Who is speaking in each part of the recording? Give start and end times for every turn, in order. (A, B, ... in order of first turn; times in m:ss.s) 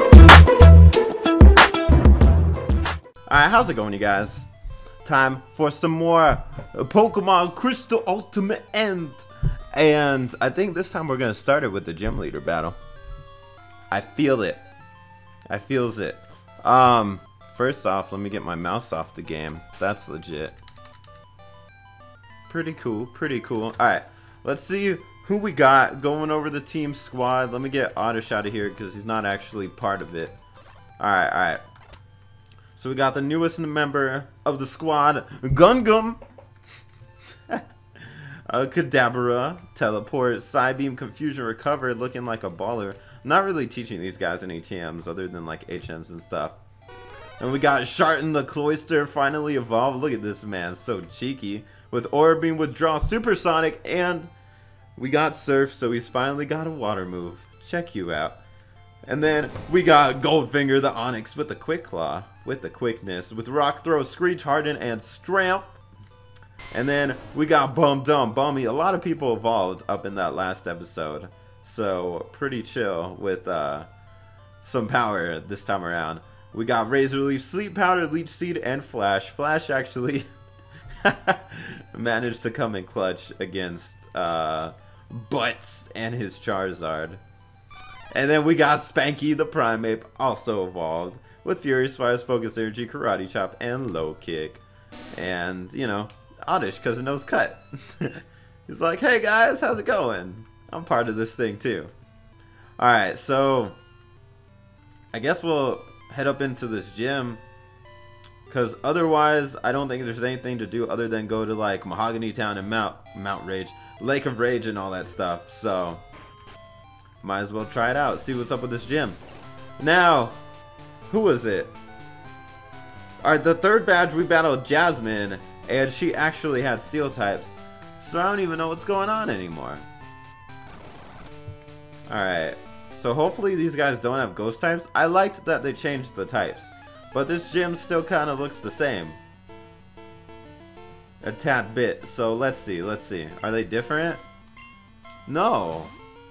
0:03.3-0:04.5 A
0:05.0-0:12.8 A
0:13.9-0:14.6 A
0:15.5-0:20.6 A
0:22.5-0:30.4 A
0:31.0-0:31.6 A
0:32.8-0:36.2 A
0:37.5-0:46.6 A
0:47.4-0:54.3 A
0:55.0-0:58.4 A
0:59.1-1:05.8 A
1:06.7-1:13.9 A
1:14.6-1:20.2 A
1:21.0-1:27.2 A
1:28.1-1:34.6 A
1:35.1-1:41.9 A
1:42.8-1:43.8 A
1:45.1-1:47.4 A
1:48.5-1:56.0 A
1:57.2-1:59.2 A
1:59.8-2:00.4 A
2:01.1-2:01.7 A
2:03.2-2:09.8 A
2:12.1-2:19.2 A
2:21.2-2:24.2 A
2:25.2-2:25.9 A